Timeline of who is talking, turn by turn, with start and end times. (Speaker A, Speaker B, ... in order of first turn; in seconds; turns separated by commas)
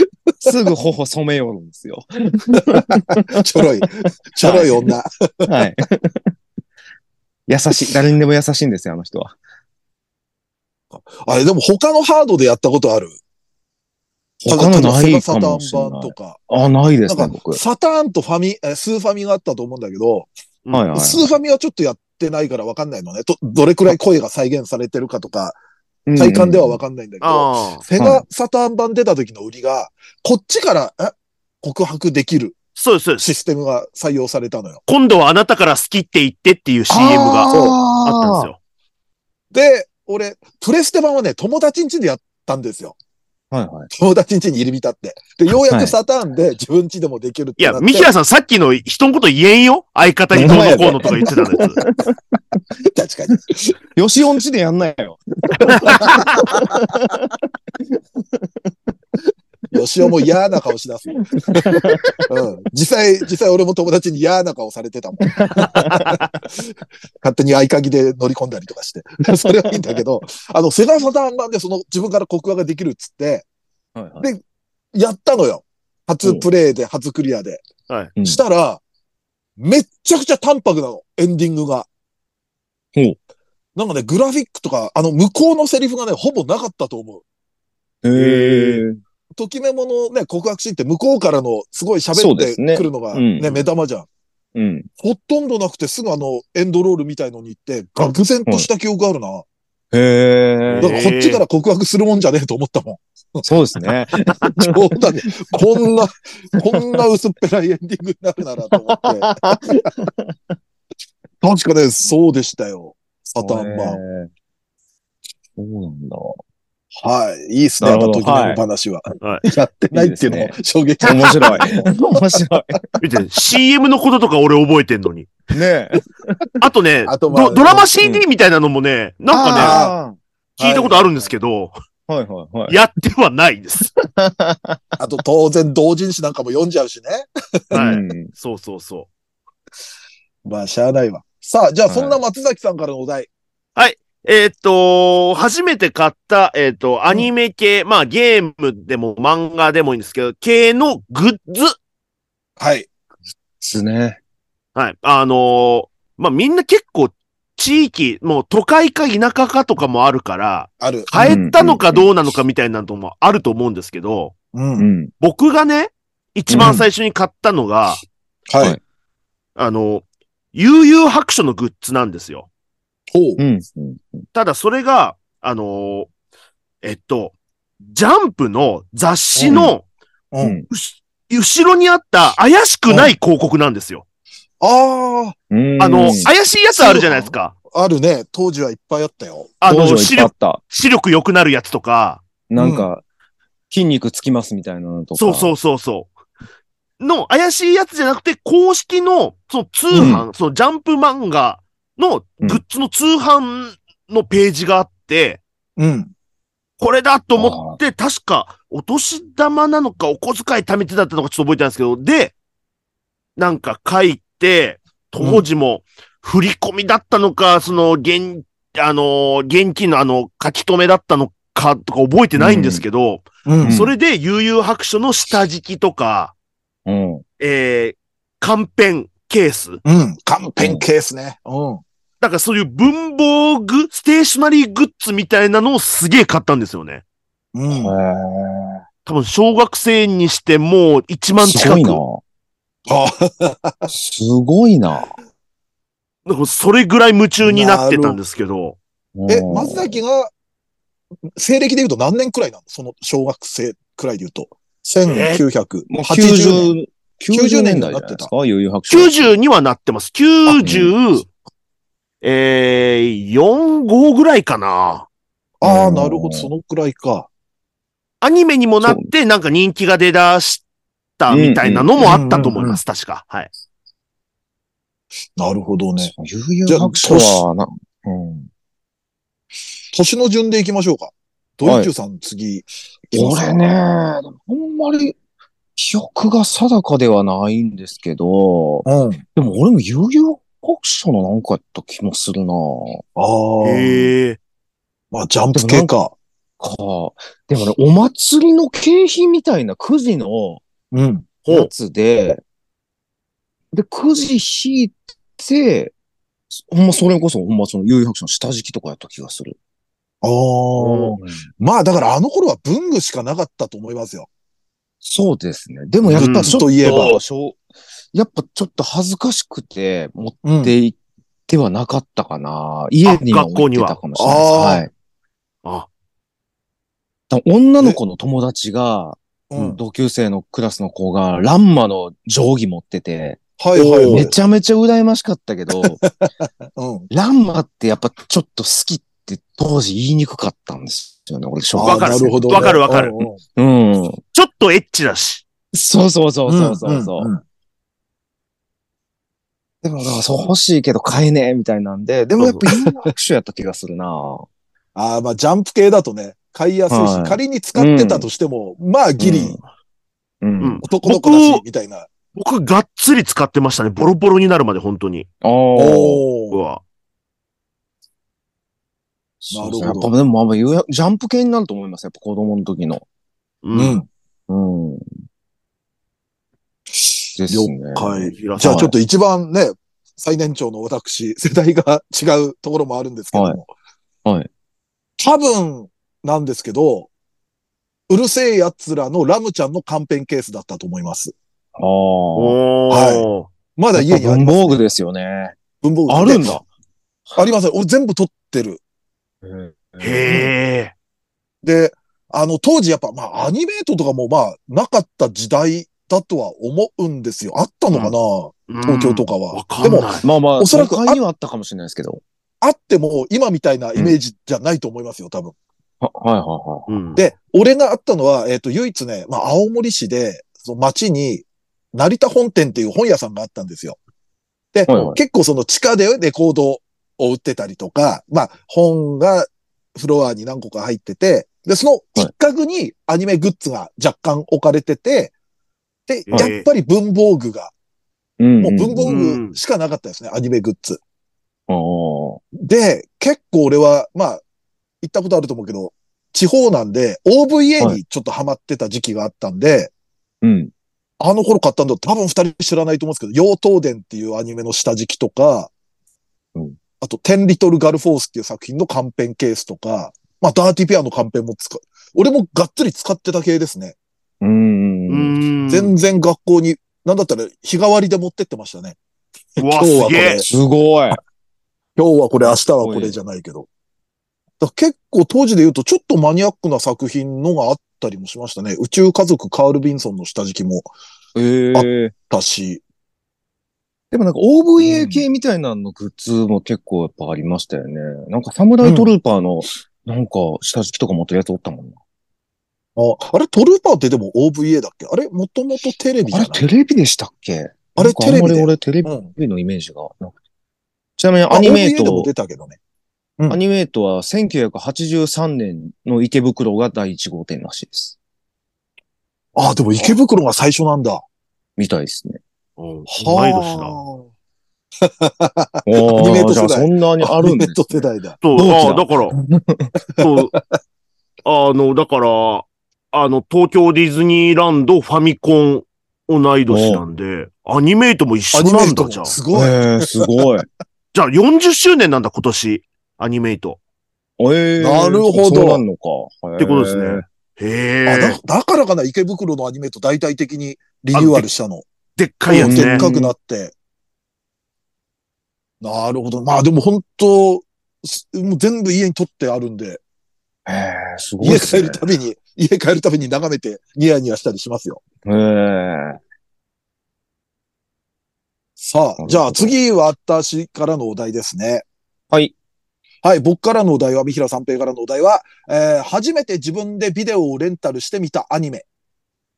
Speaker A: 0.4-3.6, Speaker B: 2.7-5.5, Speaker A: 4.4-4.9, Speaker A: 5.5-6.3, Speaker A: 7.5-9.3, Speaker B: 11.1-13.2, Speaker A: 14.4-17.6, Speaker B: 14.4-16.4, Speaker B: 17.1-20.3, Speaker A: 20.7-21.3, Speaker B: 20.9-25.6, Speaker A: 26.1-26.8, Speaker B: 26.1-32.6, Speaker C: 27.2-27.8, Speaker A: 28.0-28.2, Speaker C: 32.8-33.3, Speaker B: 33.2-34.8, Speaker C: 34.9-38.6, Speaker A: 36.9-38.5, Speaker B: 37.5-37.8, Speaker B: 39.5-43.0, Speaker A: 43.5-43.9, Speaker B: 43.9-48.1, Speaker A: 45.7-45.9, Speaker C: 47.6-51.8, Speaker A: 50.3-52.2, Speaker B: 50.4-51.3, Speaker B: 52.9-53.7, Speaker A: 54.0-58.7, Speaker B: 55.6-57.0, Speaker B: 59.7-65.9, Speaker A: 61.1-62.2, Speaker A: 65.2-66.2, Speaker B: 67.2-73.4, Speaker A: 73.9-74.3, Speaker B: 74.9-77.6, Speaker A: 76.2-76.5, Speaker B: 78.2-78.8, Speaker B: 79.6-81.9, Speaker B: 83.8-87.2, Speaker A: 88.0-89.0, Speaker C: 88.2-88.8, Speaker B: 89.3-94.1, Speaker A: 92.1-93.6, Speaker A: 94.5-94.9, Speaker B: 95.0-99.4, Speaker A: 99.9-100.9, Speaker C: 100.7-101.4, Speaker B: 100.8-103.4, Speaker A: 103.5-105.5, Speaker B: 104.6-109.9, Speaker A: 106.7-107.0, Speaker A: 108.8-110.5, Speaker B: 111.4-114.0, Speaker A: 113.4-114.3, Speaker A: 115.6-116.4, Speaker B: 117.0-121.9, Speaker A: 117.8-118.6, Speaker A: 119.9-122.8, Speaker C: 123.0-125.3, Speaker A: 125.5-126.4, Speaker C: 126.6-129.9, Speaker B: 127.0-127.9, Speaker A: 129.3-131.1, Speaker B: 129.6-129.9, Speaker C: 130.6-131.7, Speaker A: 132.1-132.8, Speaker C: 132.7-133.9, Speaker A: 134.0-134.8, Speaker B: 135.0-137.8, Speaker C: 137.7-139.1, Speaker A: 137.7-138.3, Speaker B: 140.4-143.3, Speaker A: 141.9-142.2, Speaker C: 143.8-151.8, Speaker B: 152.6-152.9, Speaker A: 153.6-154.2, Speaker C: 154.7-164.3, Speaker B: 160.8-161.4, Speaker A: 161.2-162.0, Speaker B: 164.5-164.9, Speaker A: 164.8-165.1, Speaker C: 165.2-168.0, Speaker A: 166.5-166.8, Speaker B: 166.6-166.9, Speaker B: 168.5-168.8, Speaker C: 169.6-172.5, Speaker B: 173.1-173.4, Speaker A: 173.4-174.3, Speaker C: 174.3-176.1, Speaker C: 176.8-177.3, Speaker C: 177.9-179.8, Speaker B: 179.4-179.6, Speaker A: 179.5-179.8, Speaker B: 180.3-180.6, Speaker C: 180.7-184.0, Speaker B: 182.9-183.1, Speaker B: 184.6-185.3, Speaker A: 185.5-186.3, Speaker C: 185.8-187.5, Speaker B: 186.7-189.6, Speaker C: 189.6-192.2, Speaker A: 189.7-190.6, Speaker A: 192.5-193.0, Speaker B: 192.6-192.9, Speaker A: 193.7-195.6, Speaker C: 195.2-196.1, Speaker C: 197.0-205.4, Speaker A: 199.9-200.3, Speaker B: 205.8-206.1, Speaker C: 206.8-212.3, Speaker A: 207.4-207.8, Speaker C: 213.4-226.3, Speaker B: 215.2-215.4, Speaker A: 222.4-222.8, Speaker B: 223.4-223.8, Speaker A: 223.6-223.9, Speaker A: 226.9-227.2, Speaker C: 227.4-229.8, Speaker B: 229.8-231.8, Speaker A: 230.6-230.9, Speaker C: 232.2-237.0, Speaker B: 237.5-237.9, Speaker A: 237.7-238.8, Speaker C: 239.1-242.0, Speaker A: 241.4-242.2, Speaker B: 242.9-243.9, Speaker A: 243.9-245.1, Speaker C: 246.3-248.8, Speaker B: 247.4-248.2, Speaker A: 249.2-250.0, Speaker B: 249.3-250.3, Speaker B: 251.3-256.7, Speaker C: 255.1-255.4, Speaker A: 255.9-259.3, Speaker B: 257.3-258.3, Speaker C: 258.9-261.2, Speaker B: 260.4-260.8, Speaker A: 260.6-260.9, Speaker C: 262.2-265.1, Speaker B: 265.6-267.3, Speaker A: 265.6-266.5, Speaker C: 268.2-270.6, Speaker A: 268.8-269.1, Speaker C: 271.2-273.5, Speaker A: 271.3-272.2, Speaker B: 272.1-272.8, Speaker B: 275.4-276.1, Speaker A: 276.0-278.5, Speaker B: 276.6-277.4, Speaker B: 279.9-283.6, Speaker A: 281.6-281.9, Speaker A: 283.1-285.1, Speaker A: 285.8-293.0, Speaker B: 288.8-289.2, Speaker B: 293.1-294.1, Speaker C: 293.6-294.4, Speaker B: 295.1-296.1, Speaker A: 295.6-295.9, Speaker A: 296.6-300.6, Speaker B: 300.9-301.4, Speaker A: 301.5-302.4, Speaker A: 303.7-305.9, Speaker A: 306.5-309.6, Speaker B: 310.2-314.3, Speaker C: 310.8-311.2, Speaker A: 311.2-311.4, Speaker A: 315.0-317.6, Speaker B: 316.0-317.2, Speaker C: 316.2-316.6, Speaker A: 318.1-320.9, Speaker B: 320.4-320.7, Speaker A: 321.5-324.9, Speaker C: 323.1-324.0, Speaker B: 324.2-324.9, Speaker A: 327.3-336.0, Speaker B: 329.5-329.8, Speaker B: 333.6-334.3, Speaker B: 335.7-337.1, Speaker A: 337.1-342.8, Speaker B: 341.7-343.4, Speaker C: 341.8-343.3, Speaker A: 343.6-344.2, Speaker C: 344.3-345.4, Speaker A: 345.7-347.3, Speaker B: 346.5-347.4, Speaker A: 349.8-354.4, Speaker C: 352.4-352.6, Speaker B: 352.6-353.1, Speaker B: 354.9-359.6, Speaker A: 356.9-358.3, Speaker A: 359.2-359.6, Speaker A: 360.4-360.8, Speaker C: 360.6-361.6, Speaker B: 360.8-362.1, Speaker C: 362.4-365.3, Speaker A: 365.4-366.2, Speaker B: 365.7-366.6, Speaker C: 366.5-366.8, Speaker A: 369.4-373.0, Speaker B: 369.5-370.1, Speaker C: 373.6-374.0, Speaker B: 373.7-374.1, Speaker A: 374.5-375.1, Speaker B: 376.9-383.7, Speaker A: 377.4-378.9, Speaker C: 378.3-378.9, Speaker A: 383.3-383.6, Speaker B: 385.2-387.1, Speaker B: 388.1-391.3, Speaker A: 391.8-392.6, Speaker C: 392.4-393.5, Speaker B: 392.9-394.8, Speaker A: 393.9-395.6, Speaker B: 395.8-396.6, Speaker A: 396.1-396.6, Speaker B: 397.4-398.8, Speaker A: 399.4-400.4, Speaker C: 400.0-400.9, Speaker B: 401.6-411.2, Speaker C: 408.7-410.3, Speaker A: 410.2-412.2, Speaker B: 412.6-415.6, Speaker A: 416.0-417.0, Speaker C: 416.9-417.2, Speaker B: 417.1-424.0, Speaker B: 424.7-435.3, Speaker A: 424.9-425.2, Speaker B: 436.1-437.7, Speaker C: 436.3-436.6, Speaker A: 438.4-439.2, Speaker B: 438.6-441.0, Speaker C: 439.1-439.6, Speaker A: 441.7-442.4, Speaker B: 442.5-444.4, Speaker B: 445.0-449.9, Speaker A: 450.4-450.7, Speaker B: 451.2-455.7, Speaker B: 457.0-463.9, Speaker A: 464.4-465.4, Speaker C: 465.1-465.9, Speaker B: 465.6-469.0, Speaker B: 469.6-470.5, Speaker C: 469.6-470.4, Speaker A: 470.5-471.2, Speaker B: 471.9-473.7, Speaker A: 472.4-473.2, Speaker B: 474.6-480.9, Speaker A: 481.3-482.1, Speaker B: 481.7-482.8, Speaker A: 484.1-491.9, Speaker B: 484.8-485.2, Speaker B: 488.8-489.1, Speaker B: 492.9-496.6, Speaker A: 496.3-500.4, Speaker B: 498.0-499.3, Speaker A: 501.2-502.3, Speaker B: 501.5-502.8, Speaker A: 503.5-508.1, Speaker B: 509.6-511.2, Speaker A: 511.8-512.4, Speaker C: 512.8-514.0, Speaker B: 513.1-514.2, Speaker B: 515.0-518.4, Speaker A: 515.8-517.8, Speaker C: 518.4-519.4, Speaker A: 518.5-519.9, Speaker C: 520.2-520.5, Speaker C: 521.5-529.3, Speaker A: 526.7-527.0, Speaker B: 528.5-530.5, Speaker A: 529.5-530.6, Speaker C: 531.1-533.8, Speaker A: 534.4-537.2, Speaker B: 534.8-535.8, Speaker C: 536.6-538.4, Speaker B: 538.1-541.9, Speaker C: 541.1-541.5, Speaker C: 542.2-543.0, Speaker B: 542.5-543.7, Speaker A: 542.5-543.3, Speaker B: 545.8-550.0, Speaker A: 550.6-552.0, Speaker B: 551.4-555.0, Speaker A: 555.2-556.2, Speaker B: 558.8-561.8, Speaker A: 559.2-559.7, Speaker B: 563.2-568.8